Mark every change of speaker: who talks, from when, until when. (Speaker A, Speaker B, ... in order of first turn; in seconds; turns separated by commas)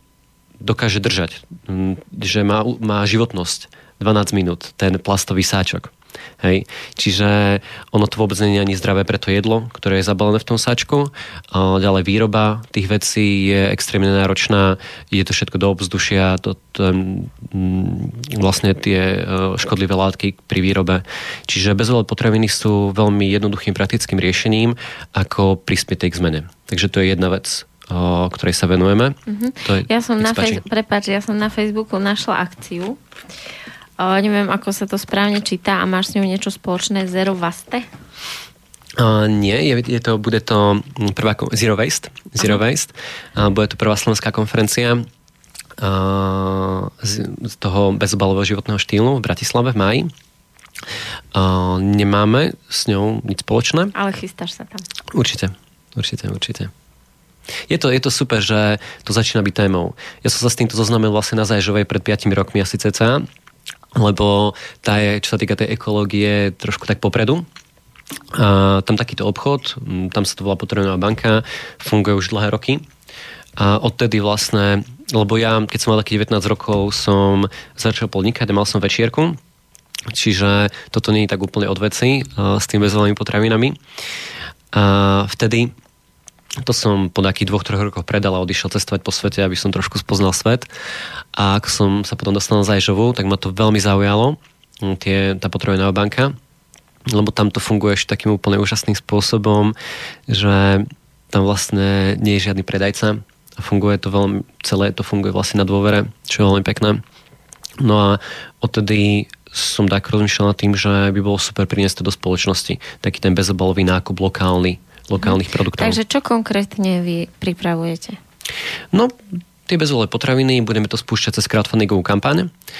Speaker A: 0.6-30.6, Speaker B: 29.3-33.0, Speaker B: 34.0-37.9, Speaker A: 39.0-45.1, Speaker A: 45.8-50.1, Speaker A: 51.3-53.9, Speaker B: 53.9-54.9, Speaker A: 55.1-56.7, Speaker A: 57.7-63.3, Speaker A: 63.9-67.5, Speaker A: 68.3-72.9, Speaker A: 73.6-79.4, Speaker A: 80.1-83.8, Speaker A: 84.7-85.7, Speaker A: 86.6-90.7, Speaker A: 91.3-96.3, Speaker A: 97.1-99.8, Speaker A: 100.3-107.0, Speaker A: 107.8-116.0, Speaker B: 115.2-118.2, Speaker A: 118.9-122.5